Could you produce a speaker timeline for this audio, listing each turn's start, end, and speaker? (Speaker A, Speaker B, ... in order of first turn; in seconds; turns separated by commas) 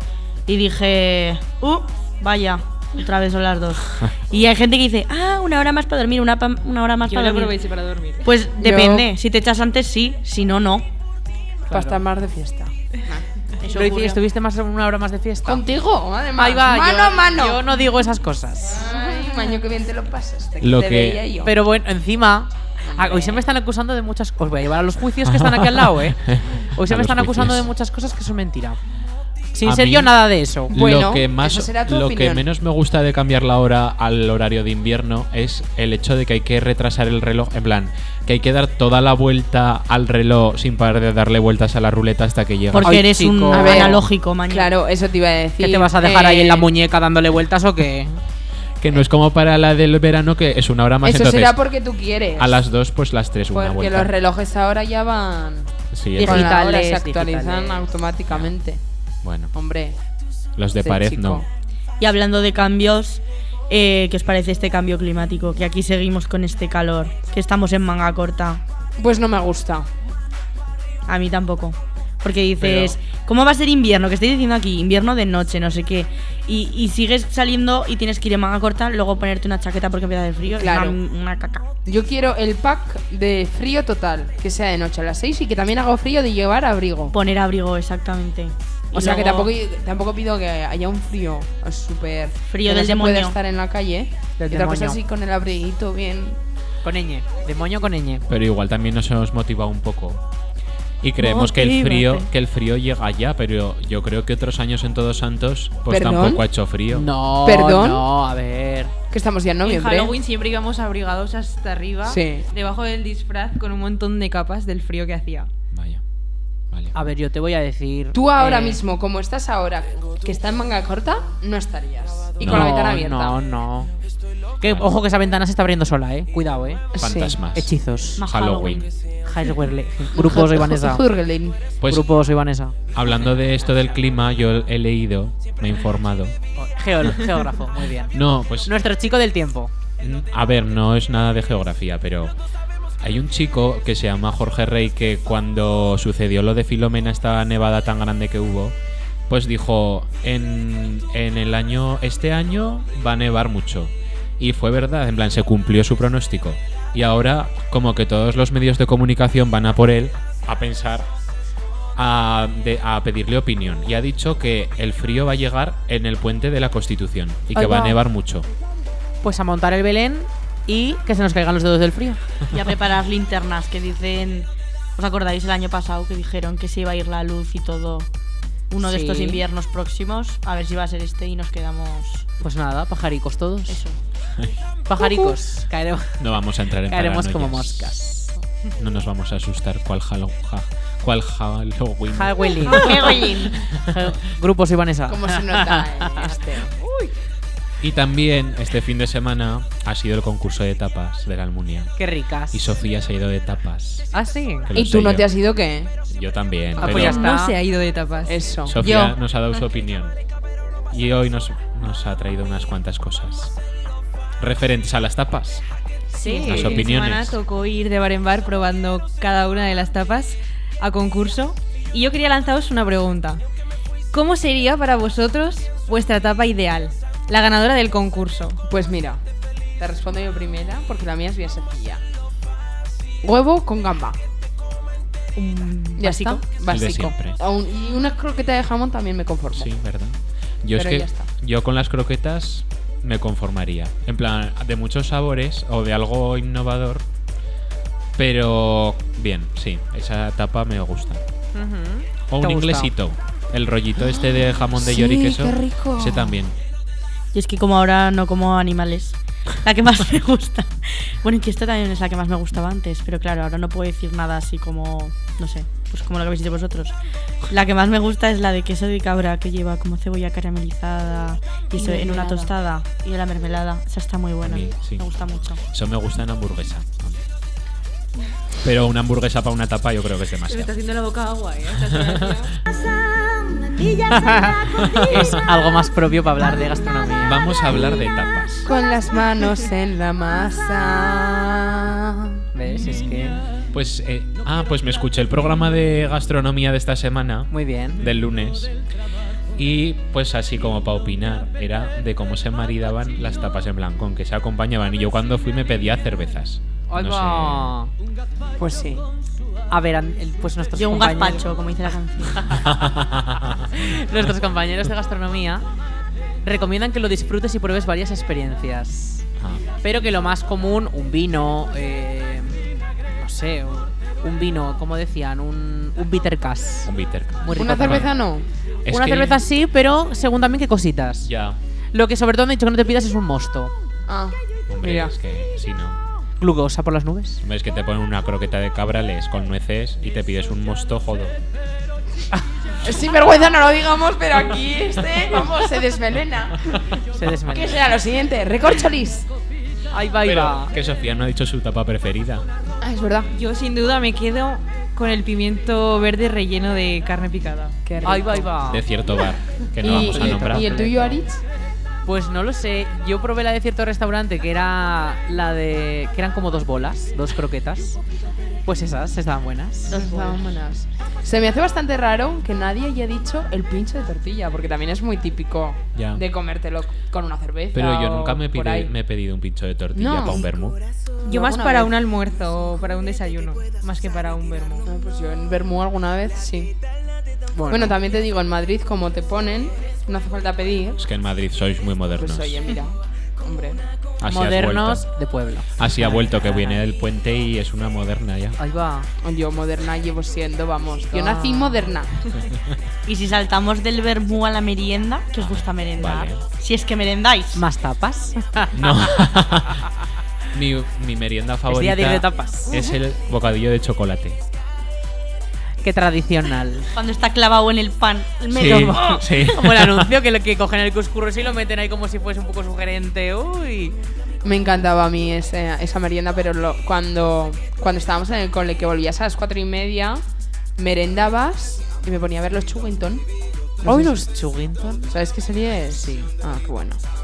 Speaker A: 0.5-7.6, Speaker B: 7.0-8.3, Speaker A: 8.2-10.9, Speaker C: 8.6-9.1, Speaker D: 11.7-12.0, Speaker C: 11.7-13.2, Speaker A: 13.6-14.2, Speaker D: 13.7-15.6, Speaker C: 15.4-17.7, Speaker D: 16.4-18.8, Speaker C: 18.7-21.5, Speaker E: 20.6-21.2, Speaker D: 21.4-28.8, Speaker C: 22.8-23.4, Speaker E: 25.3-27.7, Speaker D: 29.5-30.7, Speaker E: 29.6-30.1, Speaker E: 30.7-43.0, Speaker C: 30.7-32.5, Speaker A: 42.7-44.7, Speaker D: 42.8-44.0, Speaker C: 43.5-46.7, Speaker D: 45.6-48.2, Speaker E: 48.8-51.6, Speaker C: 51.0-52.7, Speaker E: 52.4-54.1, Speaker C: 53.5-58.8, Speaker E: 55.9-56.6, Speaker D: 56.1-57.8, Speaker E: 59.2-59.5, Speaker C: 59.5-60.0, Speaker E: 60.6-61.4, Speaker C: 60.8-61.4, Speaker A: 62.0-68.6, Speaker C: 69.0-69.9, Speaker A: 71.1-81.7, Speaker D: 72.6-72.9, Speaker C: 80.5-81.0, Speaker C: 81.8-87.1, Speaker A: 87.1-89.5, Speaker C: 88.9-96.4, Speaker A: 92.5-93.3, Speaker D: 94.4-95.0, Speaker D: 96.8-98.2, Speaker E: 98.3-100.2, Speaker E: 101.0-107.1, Speaker C: 105.9-106.4, Speaker D: 106.9-108.9, Speaker C: 107.4-108.0, Speaker C: 109.1-110.2, Speaker B: 109.6-115.5, Speaker C: 112.0-112.5, Speaker E: 115.7-116.0, Speaker D: 116.9-118.8, Speaker C: 118.1-123.4, Speaker E: 122.4-122.8, Speaker D: 122.4-123.9, Speaker D: 124.6-126.8, Speaker E: 124.6-124.9, Speaker C: 127.0-127.4, Speaker E: 127.0-128.8, Speaker D: 127.5-128.2, Speaker A: 128.2-128.9, Speaker D: 129.2-131.0, Speaker C: 130.1-131.7, Speaker E: 131.8-132.1, Speaker D: 131.9-132.8, Speaker E: 132.9-136.3, Speaker D: 136.6-139.7, Speaker E: 138.1-138.7, Speaker E: 140.0-142.3, Speaker E: 143.0-148.7, Speaker E: 149.3-161.1, Speaker E: 161.9-168.5, Speaker D: 169.2-172.2, Speaker A: 172.5-178.1, Speaker A: 178.7-182.2, Speaker D: 178.8-179.4, Speaker D: 182.4-183.8, Speaker A: 183.7-184.0, Speaker D: 184.9-186.2, Speaker E: 186.2-188.0, Speaker D: 186.9-188.3, Speaker E: 188.8-193.0, Speaker D: 192.1-197.1, Speaker A: 192.7-193.6, Speaker C: 195.1-196.7, Speaker E: 197.8-201.9, Speaker D: 202.0-202.6, Speaker E: 202.5-204.1, Speaker D: 204.1-204.7, Speaker E: 204.7-205.2, Speaker C: 204.8-205.9, Speaker E: 206.1-207.2, Speaker D: 206.8-207.6, Speaker B: 206.8-208.5, Speaker C: 208.3-208.8, Speaker E: 208.7-210.1, Speaker A: 208.8-209.2, Speaker E: 210.9-213.5, Speaker E: 214.4-215.6, Speaker B: 216.1-223.4, Speaker D: 216.2-216.9, Speaker E: 216.4-217.4, Speaker B: 224.1-228.6, Speaker C: 228.6-229.2, Speaker C: 229.8-232.0, Speaker C: 233.2-234.2, Speaker A: 235.3-236.5, Speaker C: 236.0-239.7, Speaker E: 236.7-237.4, Speaker E: 239.6-247.0, Speaker C: 240.7-241.3, Speaker E: 248.2-251.2, Speaker D: 251.5-252.9, Speaker E: 252.3-256.5, Speaker C: 254.8-256.4, Speaker A: 257.3-267.0, Speaker A: 267.5-275.6, Speaker B: 271.8-272.5, Speaker E: 274.4-277.2, Speaker E: 278.6-280.7, Speaker B: 280.5-282.5, Speaker E: 281.8-282.4, Speaker D: 284.1-287.4, Speaker E: 284.9-285.4, Speaker E: 287.2-288.7, Speaker C: 288.6-292.3, Speaker D: 292.5-293.4, Speaker E: 293.7-298.7, Speaker D: 297.5-298.0, Speaker E: 299.6-307.8, Speaker D: 306.9-307.9, Speaker C: 308.6-309.0, Speaker D: 309.7-311.4, Speaker A: 310.8-312.6, Speaker D: 312.4-312.7, Speaker E: 312.6-313.6, Speaker D: 313.7-315.6, Speaker D: 316.4-319.2, Speaker D: 319.8-328.1, Speaker E: 326.9-328.1, Speaker C: 327.5-328.5, Speaker E: 328.9-329.4, Speaker D: 328.9-331.3, Speaker E: 331.2-331.6, Speaker D: 331.9-333.7, Speaker C: 334.1-335.1, Speaker E: 334.7-336.0, Speaker D: 336.4-337.4, Speaker E: 337.4-341.3, Speaker C: 342.8-346.8, Speaker D: 347.1-347.8, Speaker C: 347.5-349.3, Speaker D: 349.9-350.7, Speaker E: 350.2-352.4, Speaker C: 352.8-353.3, Speaker B: 353.3-357.8, Speaker C: 357.8-358.5, Speaker D: 358.0-358.9, Speaker E: 358.7-360.8, Speaker C: 359.8-361.4, Speaker D: 359.8-361.2, Speaker D: 362.0-368.0, Speaker D: 368.6-370.0, Speaker A: 369.9-370.4, Speaker C: 369.9-378.9, Speaker E: 375.9-376.2, Speaker E: 377.7-380.8, Speaker C: 379.9-380.5, Speaker B: 381.2-384.9, Speaker C: 381.3-382.0, Speaker C: 384.9-386.7, Speaker D: 387.5-387.9, Speaker C: 387.7-391.0, Speaker E: 391.0-392.6, Speaker C: 392.2-393.8, Speaker E: 394.2-395.1, Speaker D: 394.3-396.8, Speaker E: 395.8-398.6, Speaker D: 398.6-399.1, Speaker C: 399.2-402.3, Speaker D: 401.1-401.8, Speaker A: 403.1-407.6, Speaker E: 405.4-406.4, Speaker D: 407.5-408.9, Speaker E: 408.7-409.8, Speaker E: 410.5-414.4, Speaker D: 411.7-412.8, Speaker D: 415.8-416.9, Speaker A: 416.9-419.5, Speaker E: 418.5-420.1, Speaker D: 418.7-423.9, Speaker C: 424.4-430.2, Speaker C: 430.8-433.2, Speaker C: 433.8-434.2, Speaker D: 433.8-435.1, Speaker C: 435.1-437.0, Speaker D: 435.9-436.3